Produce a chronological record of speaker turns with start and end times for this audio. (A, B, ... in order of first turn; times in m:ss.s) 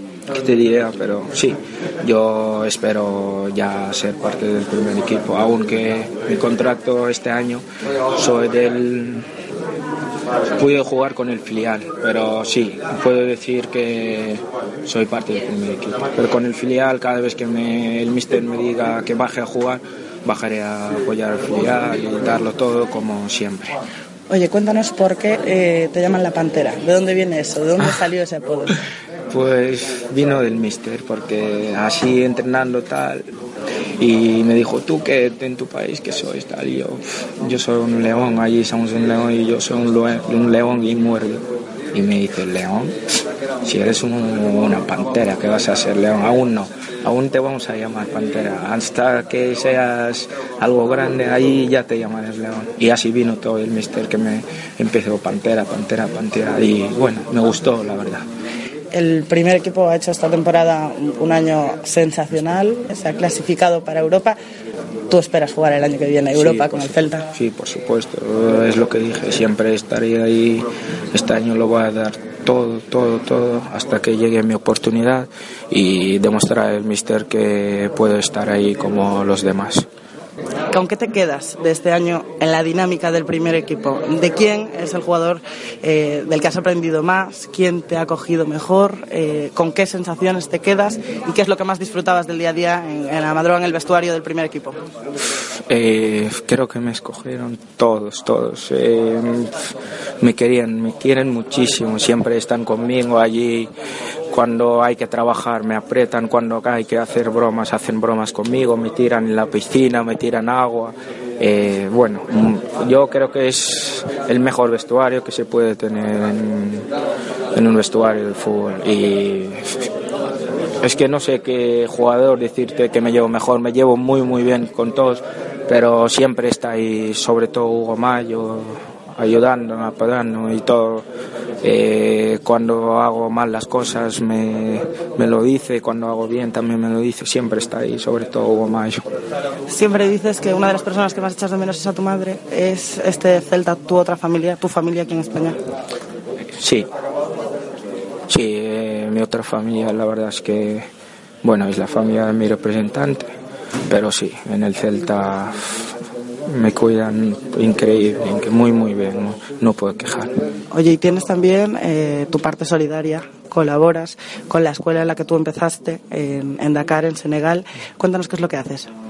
0:00.3-0:07.6 A
0:08.2-0:09.3 A
0:10.6-0:23.8 A
0:24.3-0:28.8 B
0:29.3-0:33.3 A
0:34.0-0:43.0 A
0:43.6-0:58.2 A
0:58.9-1:04.4 B
1:05.1-1:07.2 B
1:06.3-1:19.9 A
1:20.7-1:34.8 B
1:35.7-1:39.5 A
1:40.2-1:43.7 A
1:44.3-1:56.9 A
1:57.5-1:59.8 A
2:00.8-2:11.1 A
2:11.6-2:19.0 A
2:19.7-2:25.6 B
2:26.5-2:26.9 A
2:28.3-2:30.9 A
2:31.4-2:33.3 A
2:33.9-2:36.0 A
2:36.5-2:40.3 A
2:40.7-2:48.9 B